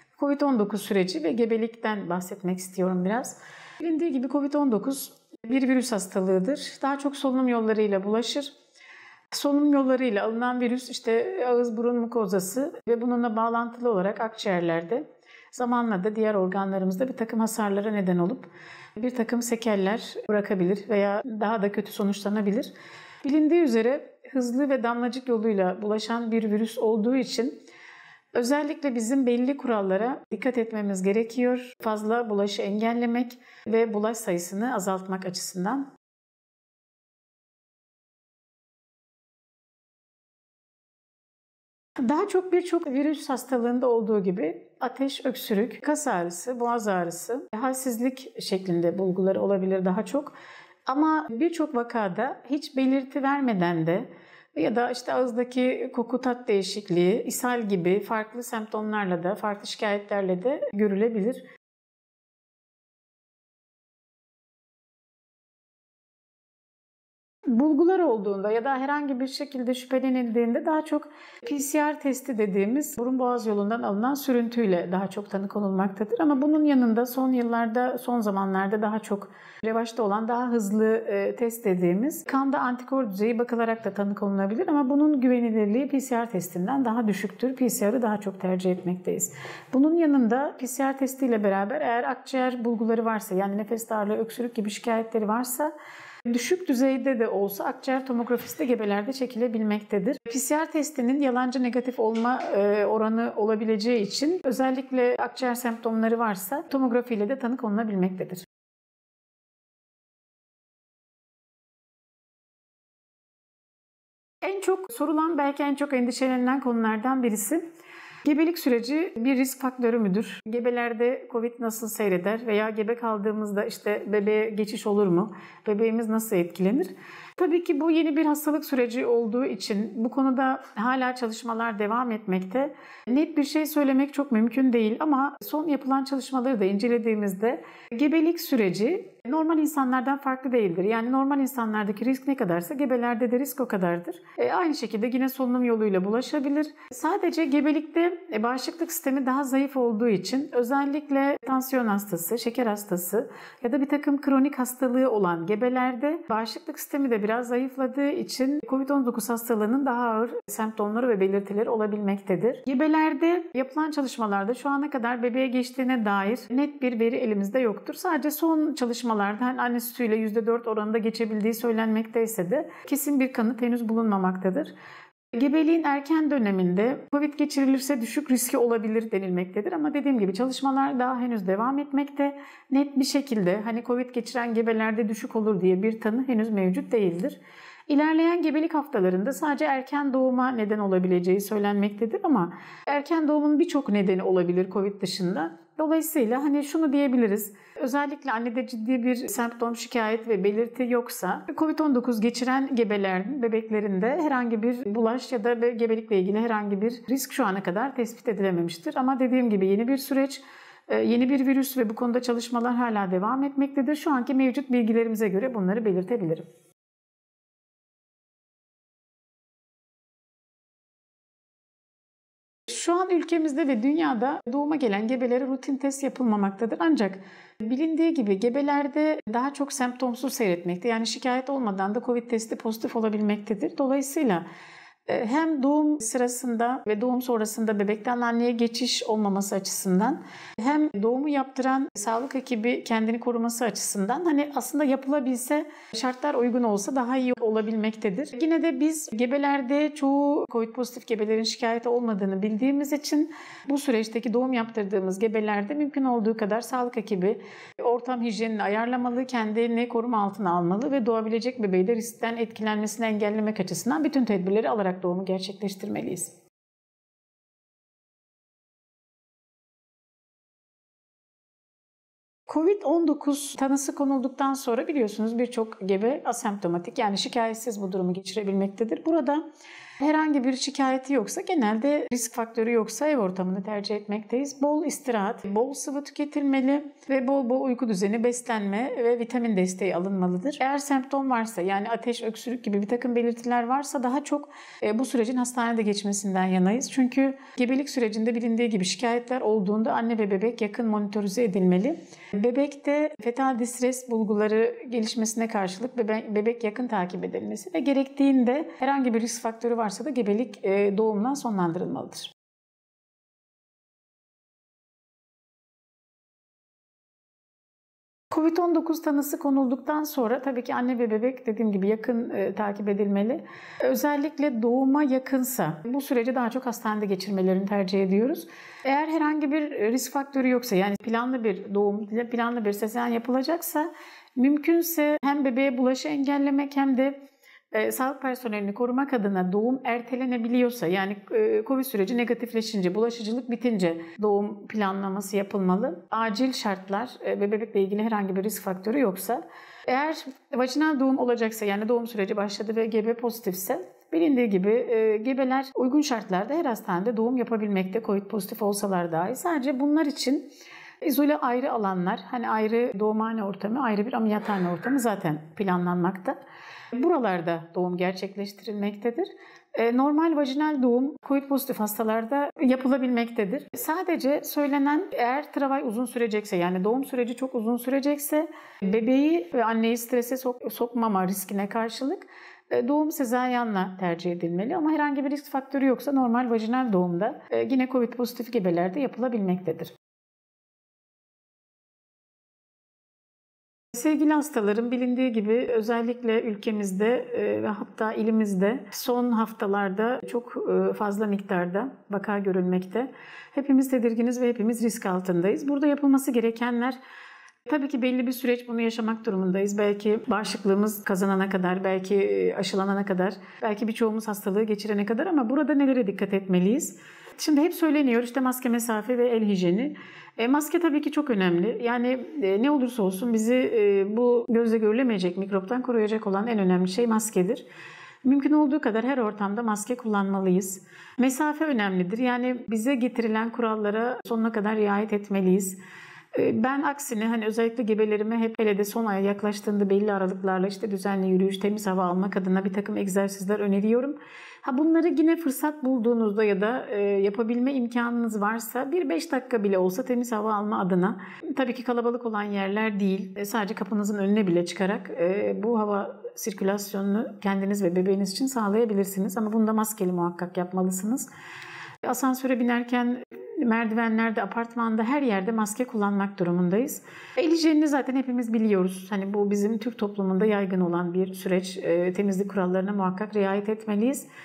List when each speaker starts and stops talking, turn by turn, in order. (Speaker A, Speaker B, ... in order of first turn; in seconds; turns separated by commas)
Speaker A: 0.2-8.5, Speaker A: 9.3-27.6, Speaker A: 28.3-35.9, Speaker A: 42.0-50.4, Speaker A: 50.9-61.5, Speaker A: 67.5-95.7, Speaker A: 96.3-108.4, Speaker A: 114.4-117.6, Speaker A: 118.2-174.7, Speaker A: 175.3-216.5, Speaker A: 222.7-234.5, Speaker A: 235.1-266.4, Speaker A: 272.5-279.4, Speaker A: 280.0-312.3, Speaker A: 318.3-337.2, Speaker A: 337.7-360.5, Speaker A: 361.0-366.4, Speaker A: 366.9-389.9, Speaker A: 393.9-407.0, Speaker A: 407.6-427.6, Speaker A: 428.2-435.8, Speaker A: 436.3-461.3, Speaker A: 462.0-474.3